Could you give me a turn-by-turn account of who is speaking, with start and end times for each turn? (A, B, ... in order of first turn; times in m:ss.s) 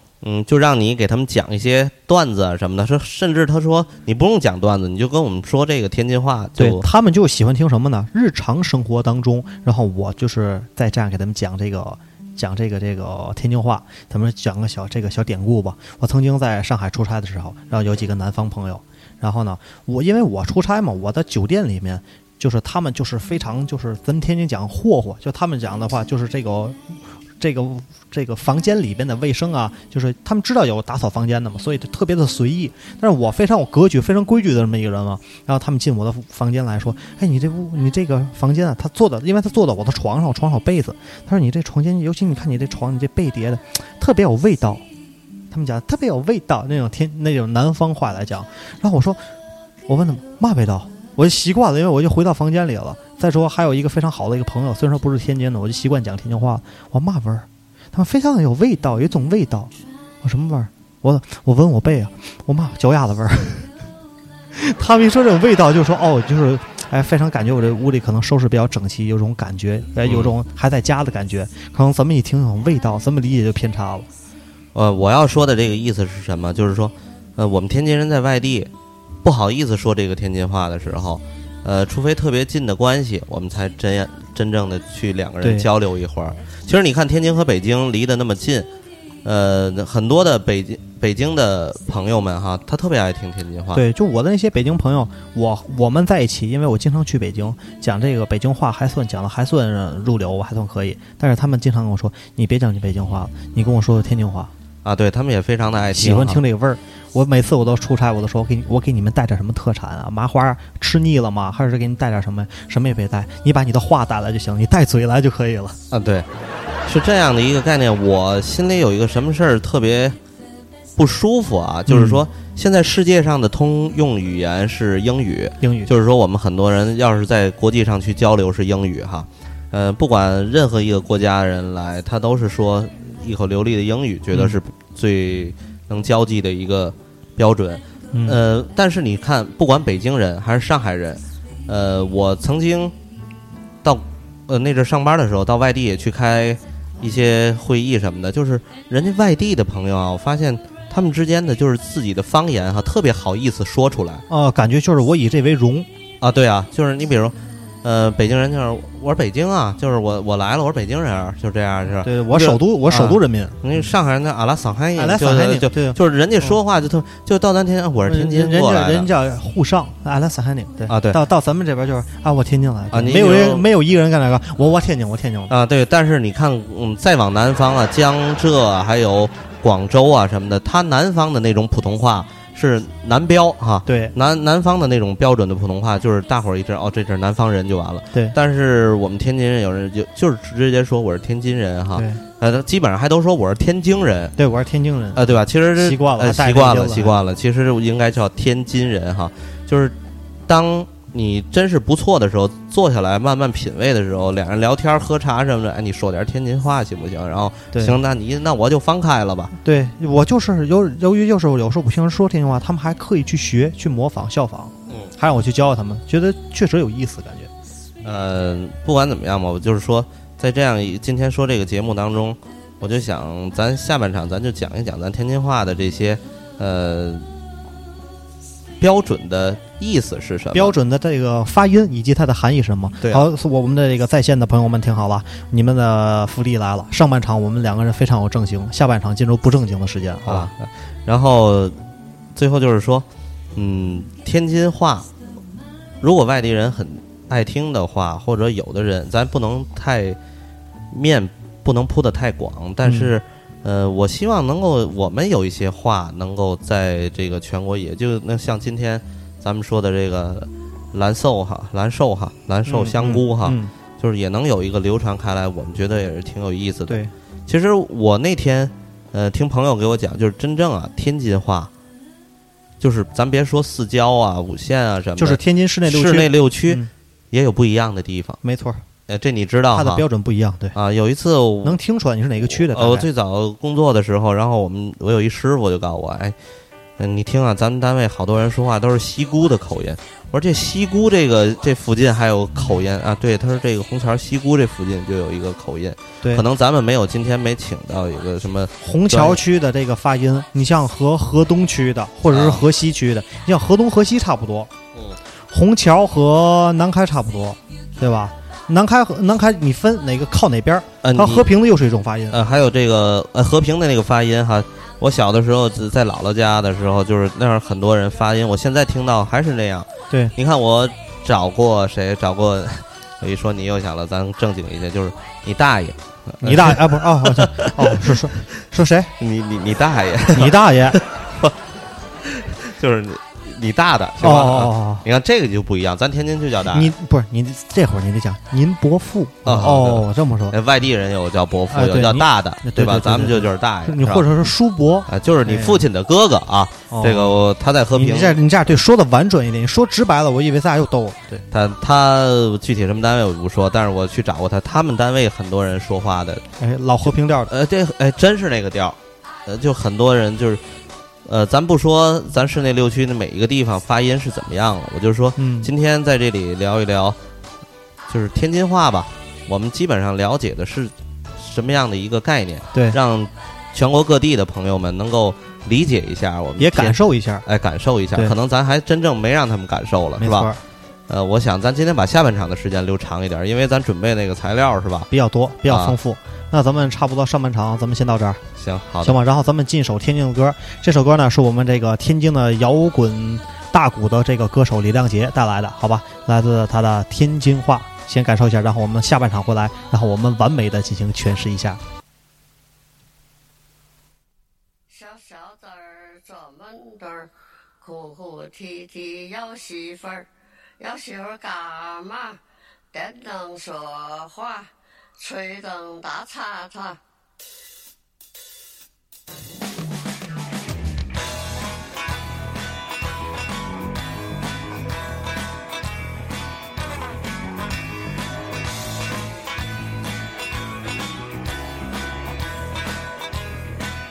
0:00.2-0:06.8 A
0:06.6-0:44.8 B
0:45.5-0:49.2 B
0:49.9-0:59.7 B
1:00.2-1:03.7 B
1:04.5-1:14.1 B
1:10.0-1:10.3 A
1:14.7-1:18.7 A
1:19.2-1:28.7 A
1:25.4-1:25.7 B
1:29.2-1:33.8 A
1:33.7-1:44.5 B
1:44.8-1:46.4 A
1:45.9-1:55.8 B
1:55.9-1:56.3 A
1:56.8-2:00.2 A
2:01.0-2:22.9 A
2:01.9-2:02.2 B
2:05.6-2:05.9 B
2:18.1-2:18.4 B
2:23.8-2:34.2 A
2:34.3-2:35.9 B
2:36.2-2:49.1 A
2:42.0-2:43.6 B
2:45.0-2:46.5 B
2:48.0-2:55.5 B
2:50.9-2:51.2 A
2:52.9-2:53.6 A
2:55.5-3:14.4 A
3:03.8-3:04.1 B
3:11.9-3:12.2 B
3:14.4-3:17.2 B
3:15.1-3:19.9 A
3:20.5-3:29.5 A
3:29.6-3:37.5 B
3:38.0-3:47.3 A
3:48.8-3:50.8 A
3:50.5-4:00.5 B
4:00.2-4:01.8 A
4:02.4-4:05.1 A
4:06.0-4:10.2 A
4:10.9-4:31.7 A
4:12.8-4:13.1 B
4:22.7-4:23.7 B
4:32.8-4:38.4 A
4:35.2-4:36.9 B
4:38.4-4:38.8 B
4:39.1-4:40.0 A
4:39.7-4:40.8 B
4:40.7-4:41.8 A
4:41.6-4:43.1 B
4:42.5-4:46.4 A
4:47.0-4:59.4 A
4:58.8-5:04.7 B
5:02.3-5:02.6 A
5:05.5-5:12.4 B
5:11.0-5:11.5 A
5:12.3-5:28.4 A
5:26.4-5:29.1 B
5:29.2-5:31.6 A
5:30.3-5:31.0 B
5:32.2-5:36.9 A
5:34.2-5:35.0 B
5:36.7-5:40.6 B
5:39.4-5:44.2 A
5:41.7-5:45.8 B
5:45.1-5:48.4 A
5:46.9-5:47.4 B
5:47.9-5:51.4 B
5:51.5-5:56.4 A
5:56.6-5:57.5 B
5:57.5-6:00.6 A
6:01.2-6:07.2 A
6:05.4-6:05.7 B
6:08.1-6:20.5 A
6:12.7-6:13.0 B
6:16.6-6:17.4 B
6:20.2-6:20.6 B
6:21.1-6:25.1 A
6:25.1-6:28.4 B
6:25.7-6:26.0 A
6:28.6-6:29.2 A
6:29.0-6:41.8 B
6:44.9-6:50.3 C
6:50.8-6:52.4 C
6:52.9-6:57.0 C